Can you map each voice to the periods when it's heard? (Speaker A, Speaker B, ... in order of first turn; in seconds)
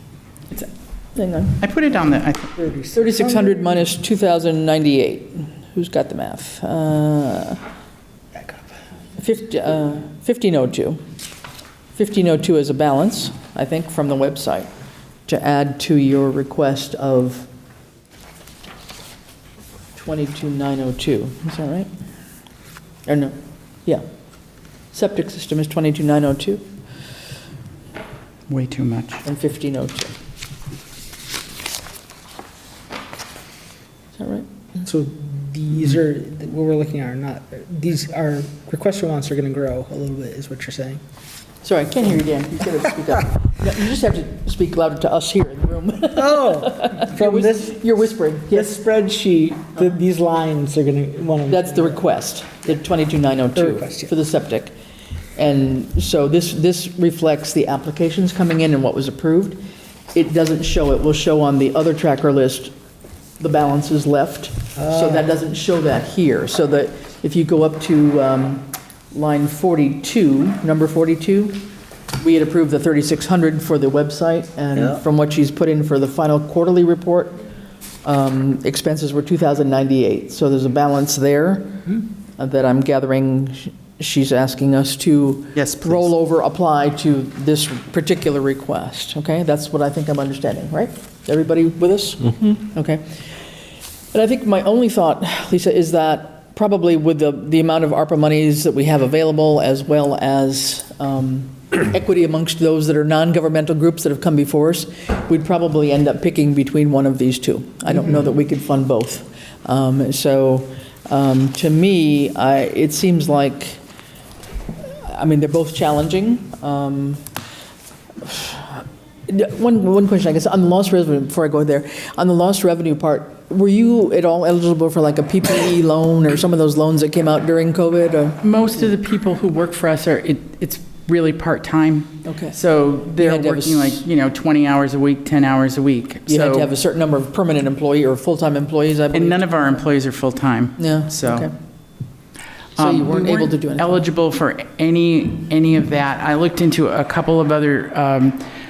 Speaker A: 0.5-1.6, 2.9-7.6, 9.2-11.0, 11.9-14.7, 15.3-17.5, 19.9-21.9, 23.1-26.7, 29.2-30.1, 34.1-34.5, 41.6-48.8, 51.5-54.7, 55.4-59.6, 60.1-62.7, 63.4-71.6, 72.2-77.4, 78.0-93.2, 94.1-113.8, 114.8-117.2, 118.2-128.4, 132.2-132.6, 133.1-134.0, 136.3-139.8, 140.8-141.5, 142.8-144.0
Speaker B: 1.6-2.5, 28.5-29.2, 85.5-86.1, 128.4-136.7, 139.1-141.5, 142.8-148.5
Speaker C: 2.6-3.8, 34.8-41.0, 46.2-47.9, 48.5-52.0, 53.6-54.1, 64.8-65.2